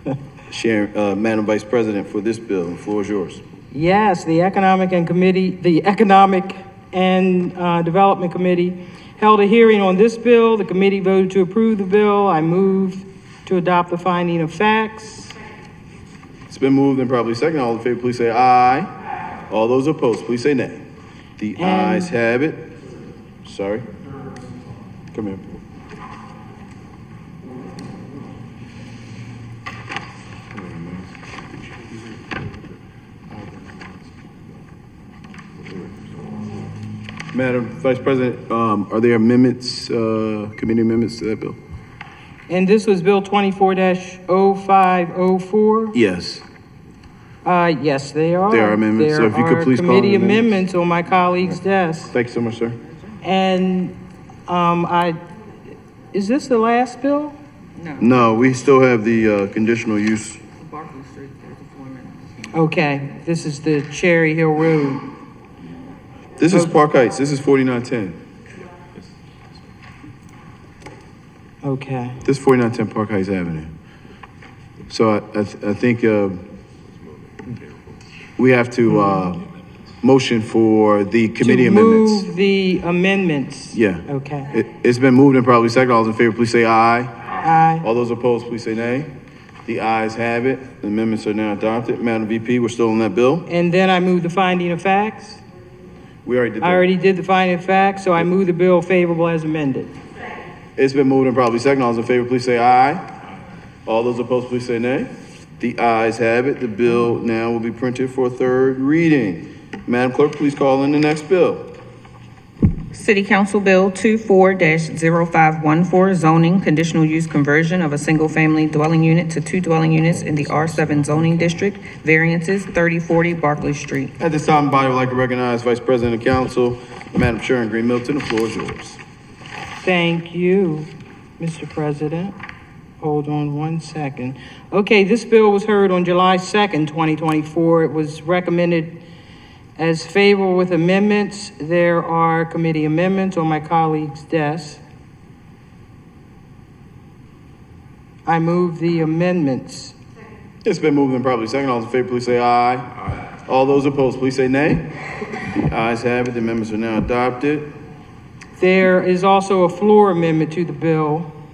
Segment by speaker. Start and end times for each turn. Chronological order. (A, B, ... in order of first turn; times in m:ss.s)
0:00.5-0:03.4 A
0:03.7-0:15.4 B
0:16.5-0:18.9 A
0:19.5-0:20.8 A
0:21.4-0:22.7 A
0:21.6-0:22.1 B
0:23.4-0:23.8 A
0:25.1-0:25.6 A
0:37.3-0:41.6 A
0:42.5-0:46.0 B
0:45.9-0:46.4 A
0:47.4-0:52.1 B
0:48.5-0:50.5 A
0:52.1-0:52.8 A
0:53.2-0:54.0 B
0:54.5-0:55.2 B
0:56.1-0:57.4 B
0:57.8-0:58.0 C
0:58.0-1:00.4 A
1:00.6-1:02.2 C
1:02.5-1:05.1 B
1:06.4-1:08.2 A
1:06.5-1:06.8 B
1:11.6-1:12.2 B
1:12.2-1:13.7 A
1:14.9-1:16.4 A
1:18.4-1:19.4 A
1:20.0-1:22.2 A
1:21.4-1:24.5 B
1:23.7-1:27.1 A
1:27.4-1:27.8 B
1:27.8-1:29.1 A
1:29.6-1:33.4 A
1:33.5-1:35.4 B
1:36.2-1:36.8 A
1:36.6-1:39.9 B
1:40.8-1:43.0 A
1:43.8-1:51.7 A
1:52.9-2:04.1 C
2:04.2-2:09.0 A
2:09.8-2:12.3 B
2:13.0-2:19.0 B
2:19.8-2:24.8 B
2:28.2-2:30.0 B
2:30.6-2:32.9 A
2:33.4-2:34.9 A
2:35.5-2:37.7 A
2:38.6-2:41.3 B